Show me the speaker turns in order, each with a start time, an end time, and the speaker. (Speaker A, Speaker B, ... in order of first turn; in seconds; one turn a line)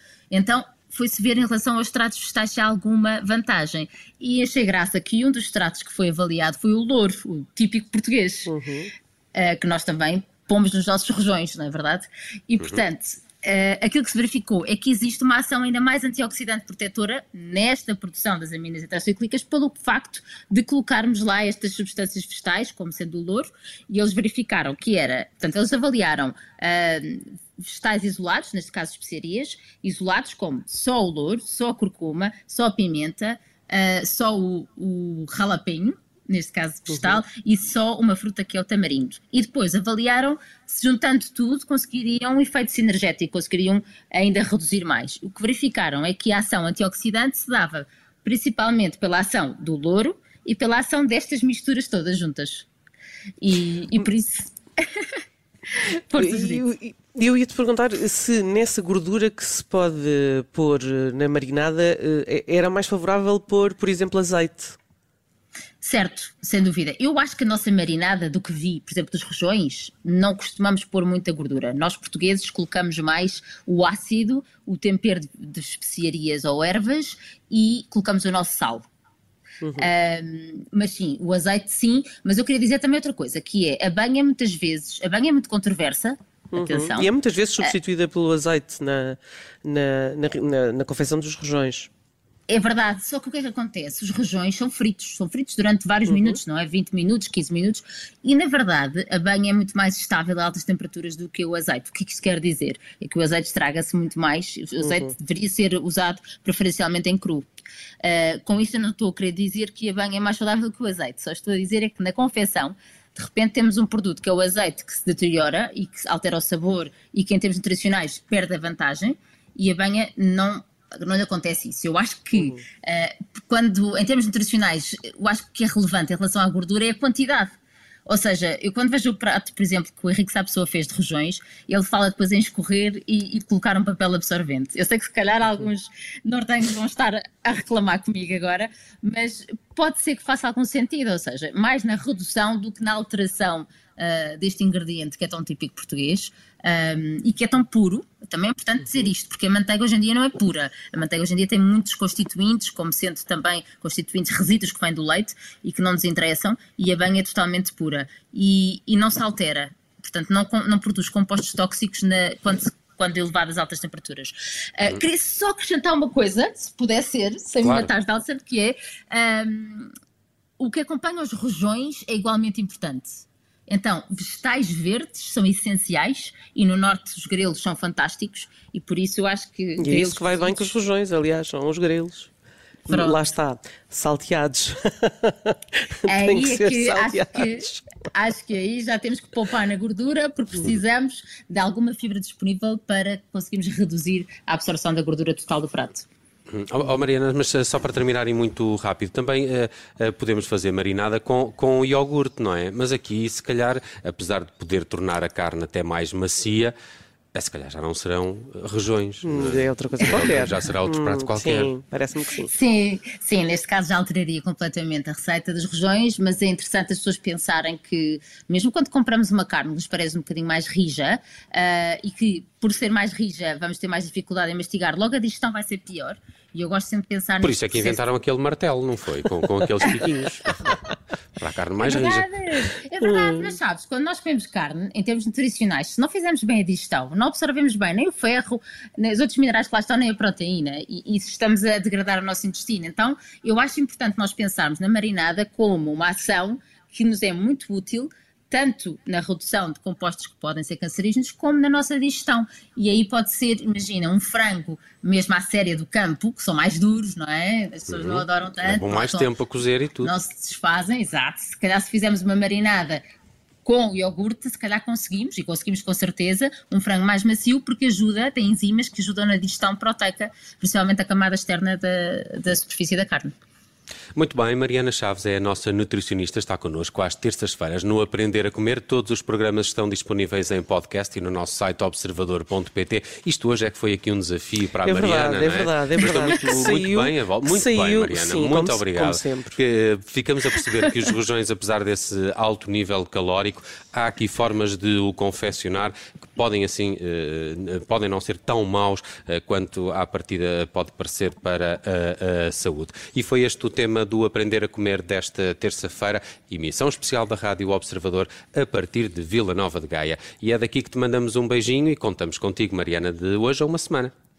Speaker A: 0.3-8.5
Speaker B: 8.5-8.9
Speaker A: 9.3-52.7
Speaker B: 36.9-37.2
Speaker A: 53.4-55.2
Speaker A: 55.7-56.6
Speaker B: 56.1-64.8
Speaker A: 65.8-78.9
Speaker B: 79.6-79.9
Speaker A: 79.8-87.1
Speaker B: 86.5-91.9
Speaker A: 92.5-107.5
Speaker B: 96.1-96.4
Speaker A: 108.0-169.9
Speaker B: 122.4-122.6
Speaker C: 167.6-167.9
Speaker A: 170.6-180.8
Speaker B: 179.8-182.3
Speaker B: 182.9-187.9
Speaker A: 182.9-183.2
Speaker A: 186.1-196.1
Speaker C: 196.5-206.7
Speaker C: 207.3-211.7
Speaker B: 209.2-212.5
Speaker A: 212.4-228.0
Speaker C: 227.4-230.8
Speaker C: 231.4-232.3
Speaker A: 231.8-259.3
Speaker B: 233.0-233.6
Speaker C: 257.9-260.2
Speaker A: 260.0-263.0
Speaker A: 263.6-273.3
Speaker C: 274.1-314.1
Speaker B: 284.8-289.6